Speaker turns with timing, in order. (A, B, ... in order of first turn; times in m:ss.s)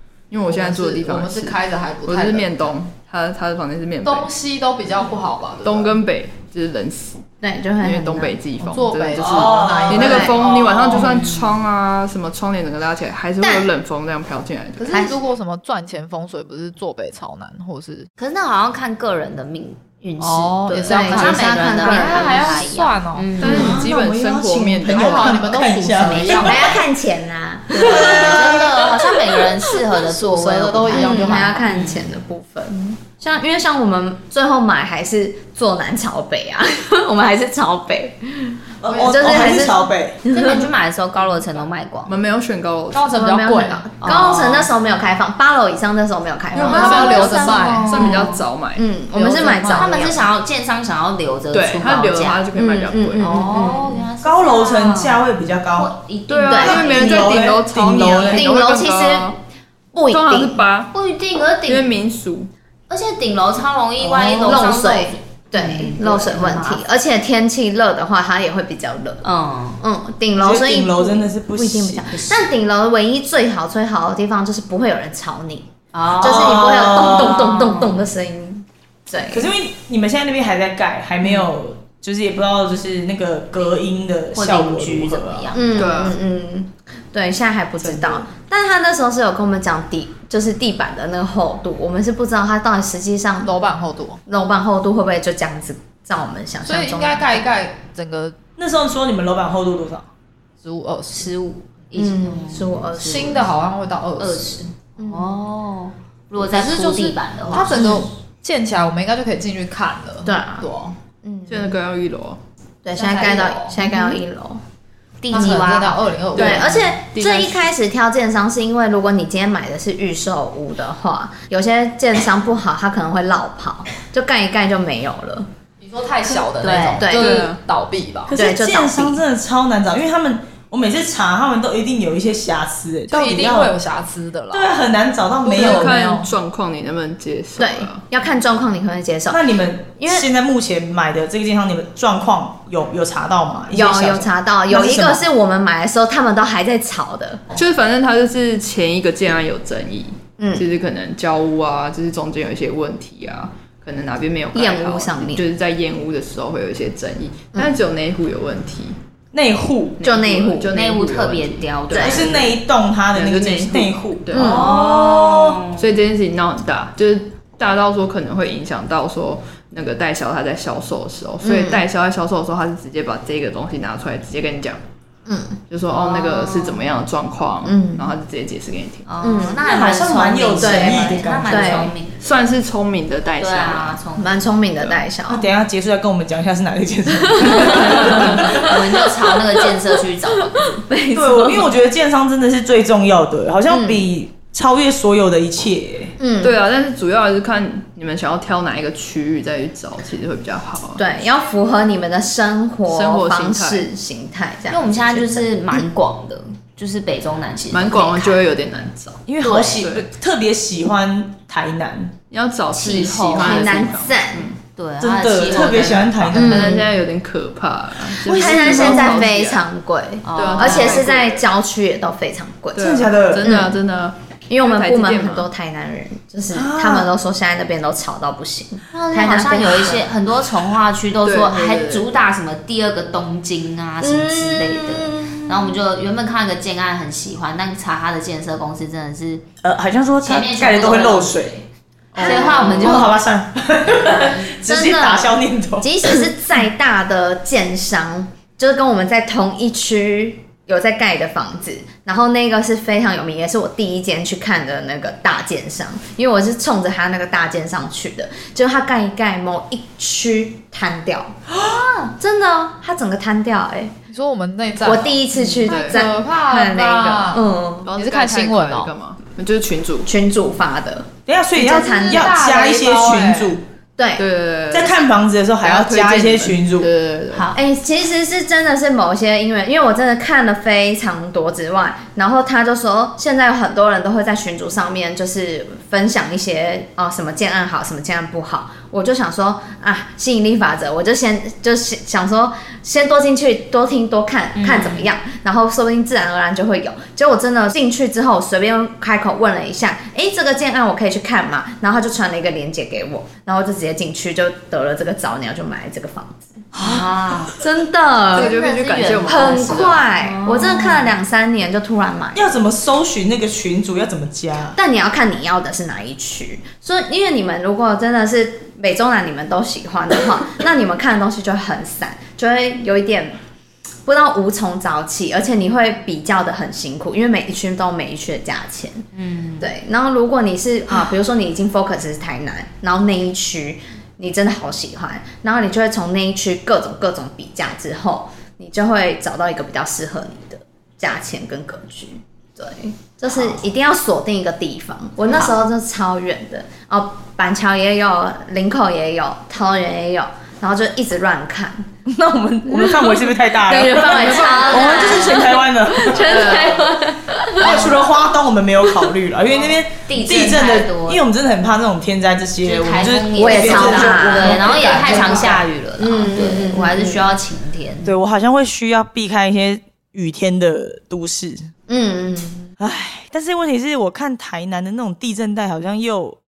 0:00.3-0:04.3 A
0:00.4-0:02.7 B
0:04.0-0:06.0 B
0:05.6-0:07.2 A
0:07.4-0:08.5 C
0:07.8-0:15.0 A
0:08.6-0:10.4 B
0:09.2-0:11.1 D
0:09.9-0:10.3 C
0:10.9-0:11.5 E
0:13.4-0:13.7 C
0:14.8-0:18.1 B
0:18.2-0:23.9 E
0:20.2-0:23.7 B
0:20.8-0:22.6 C
0:23.4-0:25.4 A
0:23.4-0:26.8 D
0:24.9-0:26.6 B
0:26.1-0:26.7 E
0:26.4-0:28.5 C
0:27.7-0:28.7 D
0:27.8-0:32.1 E
0:30.0-0:31.6 B
0:30.9-0:40.7 C
0:38.8-0:40.2 D
0:38.9-0:39.4 B
0:40.3-0:42.1 E
0:42.1-0:43.1 A
0:42.9-0:43.9 B
0:43.1-0:48.1 C
0:44.0-0:44.7 E
0:46.5-0:48.8 A
0:46.6-0:47.9 B
0:47.4-0:48.4 E
0:48.8-0:50.2 C
0:49.4-0:49.8 A
0:49.7-0:52.4 E
0:51.5-0:53.3 A
0:52.5-0:54.1 C
0:53.2-0:55.2 E
0:54.2-0:55.9 D
0:55.8-0:57.4 E
0:56.3-0:59.4 A
0:56.5-0:57.4 C
0:56.8-0:58.4 D
0:58.2-0:59.3 C
0:59.9-1:00.6 C
1:00.1-1:00.9 A
1:00.9-1:01.9 E
1:01.6-1:02.5 A
1:02.9-1:06.8 E
1:04.0-1:04.6 D
1:04.4-1:09.2 C
1:09.2-1:09.8 E
1:09.8-1:15.7 C
1:10.4-1:12.4 D
1:15.9-1:18.0 E
1:16.2-1:19.5 C
1:16.2-1:17.4 D
1:19.3-1:25.5 D
1:24.3-1:25.9 E
1:25.5-1:33.5 C
1:25.7-1:26.2 A
1:27.8-1:28.2 D
1:33.4-1:34.2 B
1:34.3-1:37.4 C
1:36.6-1:38.4 B
1:38.6-1:40.0 D
1:40.6-1:41.3 B
1:41.1-1:43.4 E
1:41.9-1:43.4 C
1:42.9-1:44.7 B
1:44.2-1:48.0 E
1:45.0-1:45.3 C
1:46.4-1:51.0 B
1:50.2-1:50.6 C
1:51.2-1:51.8 C
1:51.5-1:52.4 A
1:52.8-1:54.6 C
1:52.9-1:53.8 B
1:55.2-1:56.6 E
1:55.3-1:56.9 B
1:56.3-1:57.7 A
1:56.3-2:05.5 C
2:05.8-2:08.3 B
2:06.6-2:07.0 E
2:07.0-2:07.5 C
2:07.1-2:07.6 A
2:08.3-2:13.8 D
2:08.4-2:09.2 C
2:13.1-2:14.8 B
2:14.5-2:16.0 D
2:15.4-2:16.3 B
2:15.5-2:18.0 A
2:17.6-2:19.4 C
2:19.3-2:25.3 D
2:20.0-2:20.3 C
2:23.7-2:27.4 C
2:27.5-2:39.0 A
2:30.4-2:30.6 C
2:34.5-2:35.4 C
2:39.3-2:40.0 D
2:40.0-2:42.6 A
2:40.0-2:40.7 C
2:40.7-2:42.2 E
2:41.9-2:42.4 C
2:42.0-2:45.6 D
2:43.1-2:44.6 A
2:44.3-2:44.7 C
2:44.4-2:45.9 E
2:45.7-2:54.8 A
2:51.4-2:51.8 C
2:55.2-2:55.6 C
2:55.7-2:59.0 A
2:55.9-2:56.9 E
2:57.6-2:58.1 C
2:59.0-3:02.2 E
2:59.2-2:59.6 C
2:59.6-3:01.9 D
3:00.6-3:01.9 C
3:02.2-3:04.0 A
3:03.4-3:04.4 E
3:04.2-3:05.5 C
3:05.3-3:08.8 D
3:07.4-3:08.8 C
3:07.5-3:10.8 E
3:07.6-3:08.1 A
3:10.6-3:11.8 C
3:11.1-3:16.2 D
3:13.7-3:14.0 C
3:16.2-3:16.6 C
3:16.4-3:21.0 A
3:21.0-3:25.9 C
3:22.9-3:23.9 A
3:24.7-3:28.4 E
3:27.7-3:29.2 A
3:29.2-3:32.1 D
3:29.4-3:29.8 E
3:29.7-3:30.1 A
3:32.3-3:34.6 A
3:32.7-3:33.9 E
3:33.3-3:34.5 C
3:34.8-3:36.7 E
3:35.0-3:36.7 D
3:36.3-3:36.9 C
3:36.4-3:39.6 A
3:38.2-3:39.3 D
3:38.2-3:42.8 C
3:40.2-3:41.1 E
3:40.3-3:41.4 A
3:42.7-3:45.5 A
3:42.8-3:43.5 D
3:43.4-3:43.8 C
3:44.5-3:50.1 C
3:46.5-3:47.1 D
3:48.9-3:59.4 E
3:51.2-3:52.1 A
3:54.0-3:55.8 C
3:59.6-4:01.6 D
4:00.2-4:01.6 E
4:02.1-4:03.0 A
4:02.2-4:03.1 C
4:02.2-4:03.2 E
4:02.6-4:06.0 D
4:04.0-4:04.5 E
4:04.6-4:21.3 C
4:21.6-4:22.1 E
4:22.2-4:23.9 C
4:24.1-4:28.9 B
4:24.8-4:27.9 C
4:25.4-4:26.0 A
4:27.8-4:30.1 A
4:30.0-4:32.4 C
4:31.3-4:33.6 D
4:31.6-4:33.6 B
4:34.0-4:34.2 C
4:34.2-4:37.5 A
4:34.7-4:36.9 D
4:37.3-4:37.6 E
4:37.5-5:06.6 C
4:54.6-4:55.1 E
5:06.7-5:07.4 D
5:06.8-5:07.5 E
5:07.6-5:08.6 C
5:08.3-5:11.1 E
5:08.3-5:09.8 A
5:09.2-5:12.5 C
5:12.3-5:14.8 D
5:14.7-5:23.4 C
5:24.0-5:29.0 C
5:29.1-5:29.7 E
5:29.6-5:51.9 C
5:52.1-5:56.5 D
5:52.6-5:58.1 C
5:54.0-5:55.5 E
5:56.2-5:56.9 E
5:56.3-5:56.8 A
5:57.5-5:58.1 E
5:57.6-6:05.6 D
5:59.5-6:01.2 E
6:02.6-6:08.1 E
6:03.4-6:07.3 C
6:08.0-6:11.7 D
6:11.9-6:12.7 C
6:12.8-6:16.4 D